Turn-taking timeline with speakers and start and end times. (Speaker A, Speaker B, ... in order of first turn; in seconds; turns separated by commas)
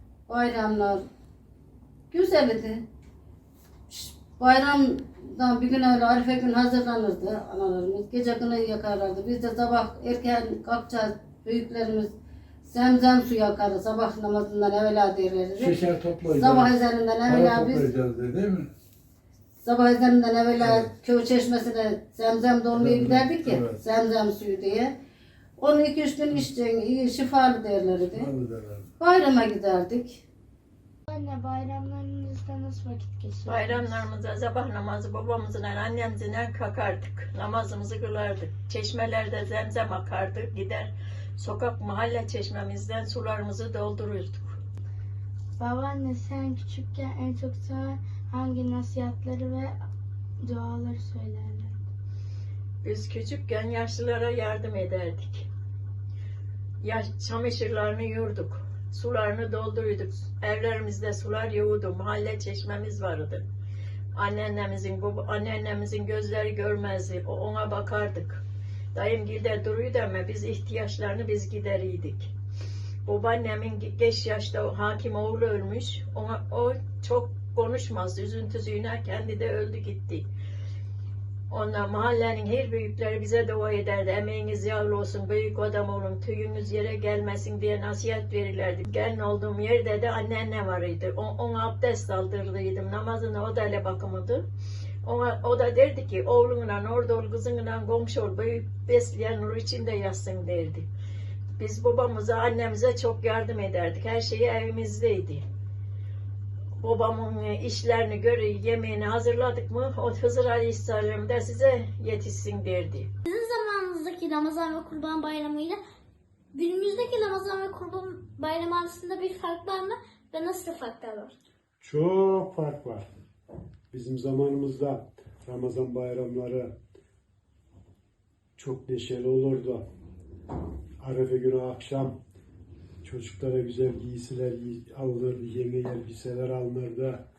Speaker A: 0.3-1.1, Speaker A: 2.1-2.8, Speaker A: 3.9-17.9, Speaker B: 15.6-18.7, Speaker A: 19.6-24.9, Speaker B: 20.6-20.9, Speaker B: 22.7-23.8, Speaker A: 25.6-28.3, Speaker B: 28.0-28.9, Speaker A: 29.0-30.2, Speaker C: 31.1-34.0, Speaker D: 33.5-44.6, Speaker C: 45.6-49.6, Speaker C: 50.5-51.7, Speaker D: 52.8-55.5, Speaker D: 56.8-63.4, Speaker D: 64.2-68.4, Speaker D: 68.9-72.3, Speaker D: 73.0-80.2, Speaker D: 81.5-94.4, Speaker D: 95.0-100.9, Speaker D: 101.6-105.4, Speaker D: 106.8-113.1, Speaker E: 113.2-115.8, Speaker E: 116.5-121.3, Speaker F: 121.8-123.0, Speaker F: 123.9-126.7, Speaker F: 128.6-129.8, Speaker F: 131.0-132.2, Speaker F: 133.0-137.2